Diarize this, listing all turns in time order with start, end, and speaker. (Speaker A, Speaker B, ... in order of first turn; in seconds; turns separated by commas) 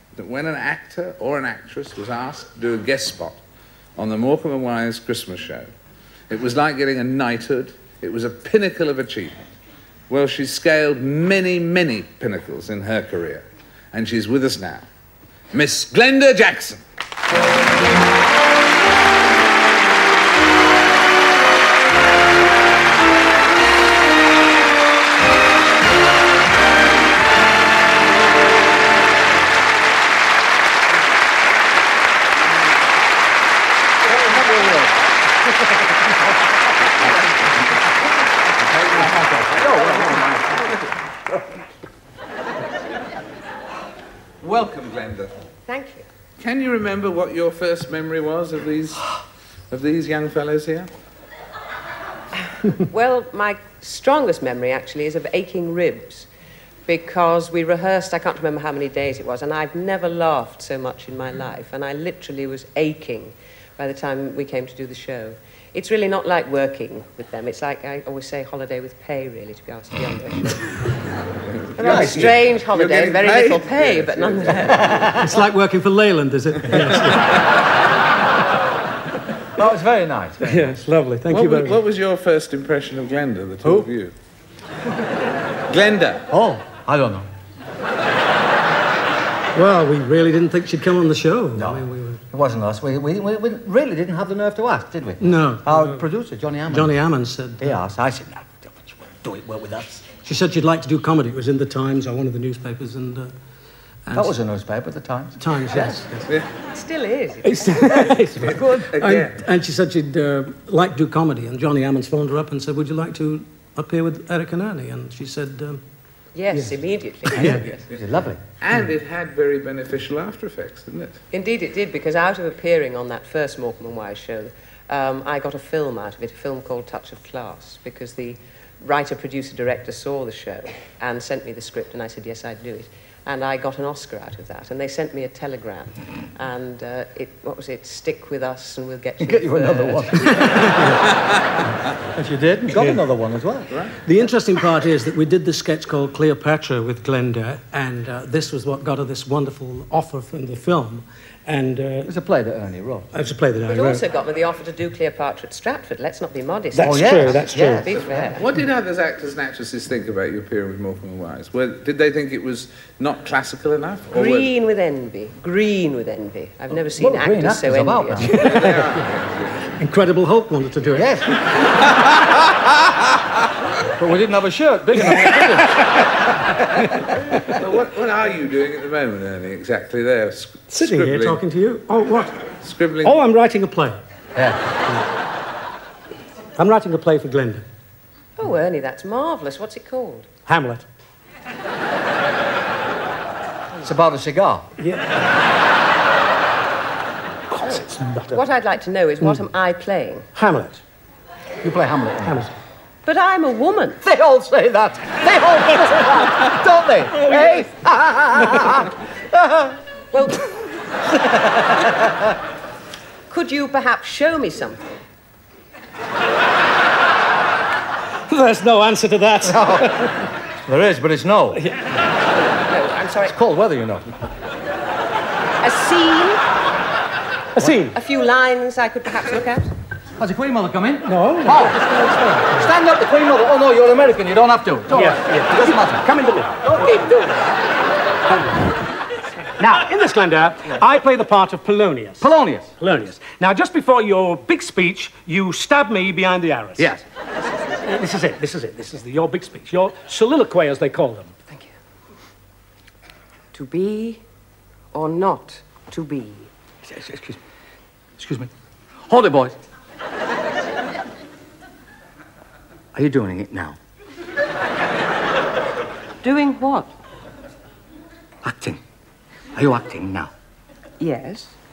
Speaker A: 0.1-3.4, Speaker A: 4.0-5.7, Speaker A: 6.3-9.4, Speaker A: 10.1-14.9, Speaker A: 15.5-16.8, Speaker B: 34.1-35.0, Speaker A: 38.6-39.3, Speaker B: 38.9-41.2, Speaker A: 44.4-45.4, Speaker C: 45.7-46.0, Speaker A: 46.4-49.2, Speaker A: 49.7-50.9, Speaker C: 52.6-56.3, Speaker C: 56.9-70.8, Speaker A: 71.3-75.1, Speaker B: 71.8-72.4, Speaker C: 71.8-75.3, Speaker B: 74.8-75.2, Speaker D: 75.2-77.4, Speaker B: 79.6-80.8, Speaker D: 80.4-81.8, Speaker A: 81.3-84.1, Speaker A: 85.7-86.3, Speaker B: 86.3-87.3, Speaker D: 89.5-92.2, Speaker B: 91.6-97.0, Speaker D: 95.2-96.0, Speaker D: 96.7-97.7, Speaker B: 97.6-100.2, Speaker D: 100.2-103.3, Speaker D: 104.1-104.3, Speaker B: 104.1-106.0, Speaker D: 105.4-106.3, Speaker C: 106.7-108.6, Speaker D: 107.4-115.8, Speaker A: 108.4-109.4, Speaker C: 116.3-117.7, Speaker D: 116.5-117.6, Speaker B: 117.4-118.4, Speaker A: 117.7-118.0, Speaker A: 118.6-121.2, Speaker C: 121.3-141.0, Speaker B: 139.2-140.9, Speaker D: 140.4-140.9, Speaker B: 142.0-143.7, Speaker D: 142.8-143.0, Speaker A: 143.7-144.0, Speaker D: 144.0-152.1, Speaker B: 152.0-153.1, Speaker D: 153.1-154.0, Speaker C: 153.7-158.4, Speaker D: 156.7-157.9, Speaker B: 156.8-158.4, Speaker A: 158.1-164.5, Speaker C: 164.1-168.5, Speaker B: 166.9-168.4, Speaker D: 168.2-169.0, Speaker A: 168.3-169.5, Speaker D: 169.8-171.1, Speaker B: 170.9-171.3, Speaker B: 174.0-175.8, Speaker D: 175.1-176.1, Speaker D: 176.9-177.4, Speaker A: 177.3-181.4, Speaker D: 180.7-182.4, Speaker A: 182.6-183.2, Speaker D: 183.0-184.0, Speaker B: 184.3-184.6, Speaker D: 186.6-187.6, Speaker C: 188.4-190.3, Speaker D: 190.5-190.8, Speaker B: 193.8-194.7, Speaker D: 194.8-195.3, Speaker D: 197.5-198.4, Speaker C: 198.3-200.3, Speaker D: 200.3-200.8, Speaker B: 201.6-202.4, Speaker D: 202.2-202.5, Speaker C: 203.0-204.0, Speaker B: 204.0-209.8, Speaker C: 210.1-210.5, Speaker B: 211.2-212.2, Speaker C: 213.3-214.8, Speaker D: 218.3-220.3, Speaker B: 219.4-220.1, Speaker B: 220.6-221.6, Speaker D: 221.6-221.8, Speaker C: 222.5-223.3, Speaker B: 223.2-224.1, Speaker C: 225.6-226.4, Speaker D: 227.6-227.9, Speaker C: 227.6-229.7, Speaker B: 230.2-231.8, Speaker D: 231.0-232.0, Speaker C: 232.0-232.4, Speaker B: 232.5-237.0, Speaker D: 234.9-235.8, Speaker C: 236.8-237.3, Speaker D: 239.6-242.3, Speaker B: 242.2-242.7, Speaker D: 242.8-246.9, Speaker B: 246.8-247.0, Speaker D: 247.8-251.3, Speaker C: 253.5-254.2, Speaker C: 254.9-256.5, Speaker B: 256.8-257.4, Speaker B: 258.2-258.5, Speaker B: 259.1-259.5, Speaker B: 262.9-263.8, Speaker C: 266.2-266.9, Speaker B: 268.4-268.8, Speaker B: 269.5-270.3, Speaker C: 271.0-271.5